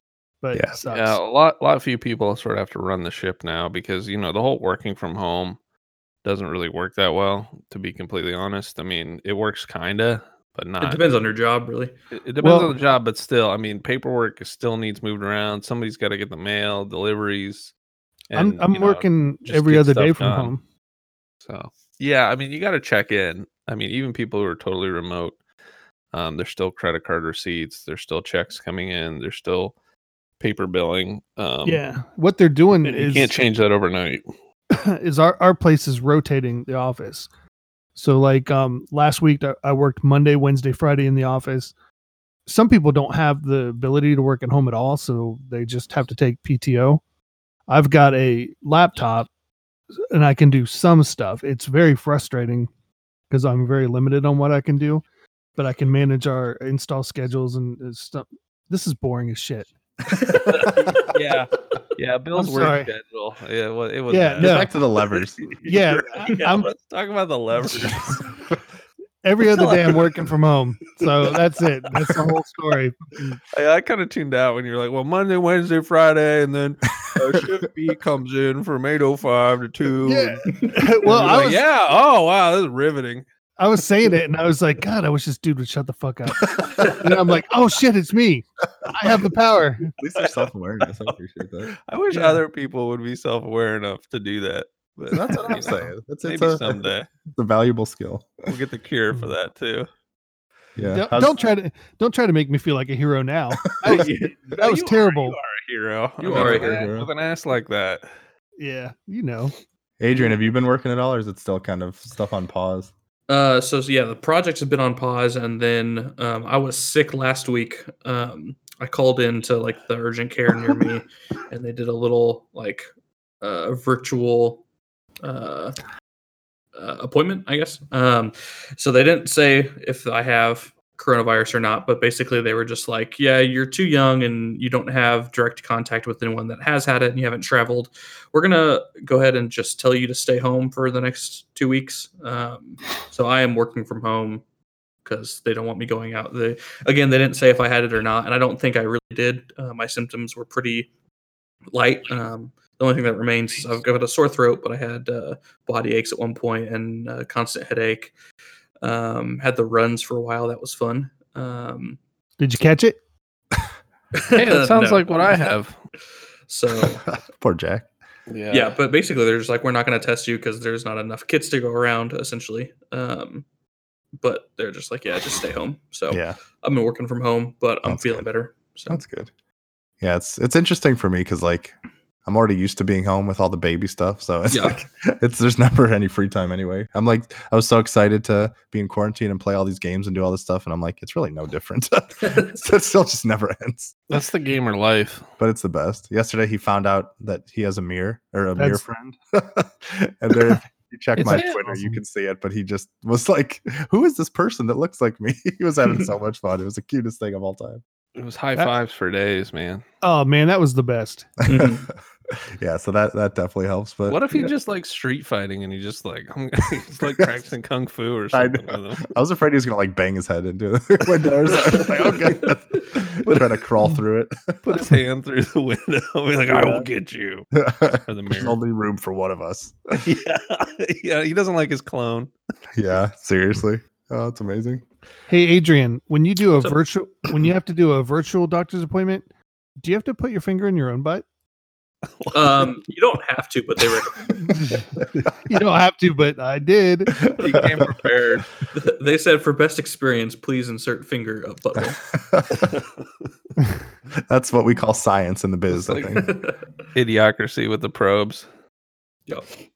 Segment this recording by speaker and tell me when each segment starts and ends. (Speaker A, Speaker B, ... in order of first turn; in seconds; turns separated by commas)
Speaker A: 0.4-1.2, Speaker B: 0.5-0.8, Speaker C: 0.9-5.6, Speaker C: 6.2-11.0, Speaker D: 10.8-11.9, Speaker C: 12.1-17.7, Speaker A: 12.4-12.7, Speaker C: 18.3-20.5, Speaker A: 18.4-20.6, Speaker C: 21.4-25.4, Speaker C: 26.1-29.7, Speaker C: 30.4-31.8, Speaker A: 31.6-33.4, Speaker C: 32.8-34.2, Speaker A: 34.7-37.3, Speaker A: 38.0-41.7, Speaker A: 42.5-47.0, Speaker A: 47.7-49.3, Speaker A: 50.1-52.7, Speaker A: 53.3-55.0, Speaker A: 55.6-59.7, Speaker D: 60.1-61.0, Speaker C: 60.5-64.7, Speaker B: 60.6-60.9, Speaker A: 62.4-62.9, Speaker A: 64.1-64.7, Speaker B: 64.4-65.4, Speaker C: 65.4-68.3, Speaker A: 65.6-66.7, Speaker A: 67.6-68.1, Speaker A: 69.2-73.4, Speaker C: 69.4-70.2, Speaker C: 71.0-71.4, Speaker C: 71.9-72.2, Speaker C: 73.5-83.2, Speaker A: 80.0-81.6, Speaker D: 80.5-80.8, Speaker A: 83.6-89.9, Speaker B: 86.6-87.0, Speaker B: 90.0-91.8, Speaker C: 90.2-90.4, Speaker C: 91.9-97.1, Speaker A: 92.1-92.4, Speaker B: 95.1-98.5, Speaker C: 98.5-99.9, Speaker B: 100.8-101.4, Speaker A: 100.9-105.4, Speaker B: 103.6-104.1, Speaker C: 103.8-108.1, Speaker D: 106.2-106.9, Speaker B: 106.3-107.1, Speaker A: 108.6-109.5, Speaker B: 110.0-112.9, Speaker D: 113.3-122.8, Speaker D: 123.4-124.6, Speaker D: 125.2-125.8, Speaker D: 126.8-144.4, Speaker D: 145.1-150.9, Speaker D: 151.7-158.1, Speaker D: 158.8-162.0, Speaker A: 162.4-163.0, Speaker D: 164.2-165.6, Speaker C: 164.3-165.8, Speaker D: 166.5-167.1, Speaker B: 166.8-167.9, Speaker C: 168.3-168.8, Speaker D: 168.5-173.4, Speaker D: 174.2-179.0, Speaker B: 176.1-176.4, Speaker B: 177.8-178.2, Speaker B: 178.9-179.3, Speaker B: 180.0-181.7, Speaker B: 182.2-193.9, Speaker D: 184.5-184.8, Speaker D: 192.2-192.6, Speaker C: 194.1-195.3, Speaker B: 195.4-207.8, Speaker A: 198.6-198.8, Speaker C: 201.2-201.9, Speaker C: 208.2-209.8, Speaker A: 210.0-211.3, Speaker B: 211.4-214.5, Speaker D: 211.5-211.9, Speaker C: 214.1-219.1, Speaker B: 218.3-224.6, Speaker C: 221.4-223.6, Speaker C: 224.6-227.5, Speaker B: 226.5-226.9, Speaker B: 227.5-230.0, Speaker C: 228.1-228.6, Speaker C: 229.9-232.3, Speaker B: 232.7-234.8, Speaker A: 235.3-239.2, Speaker A: 239.8-241.2, Speaker C: 242.2-242.8, Speaker D: 242.3-244.7, Speaker A: 244.4-244.9, Speaker A: 245.5-247.3, Speaker B: 247.2-247.9, Speaker C: 247.3-248.5, Speaker D: 248.7-252.0, Speaker B: 252.1-252.7, Speaker C: 252.6-252.9, Speaker B: 254.2-256.4, Speaker D: 256.1-256.6, Speaker C: 256.9-258.5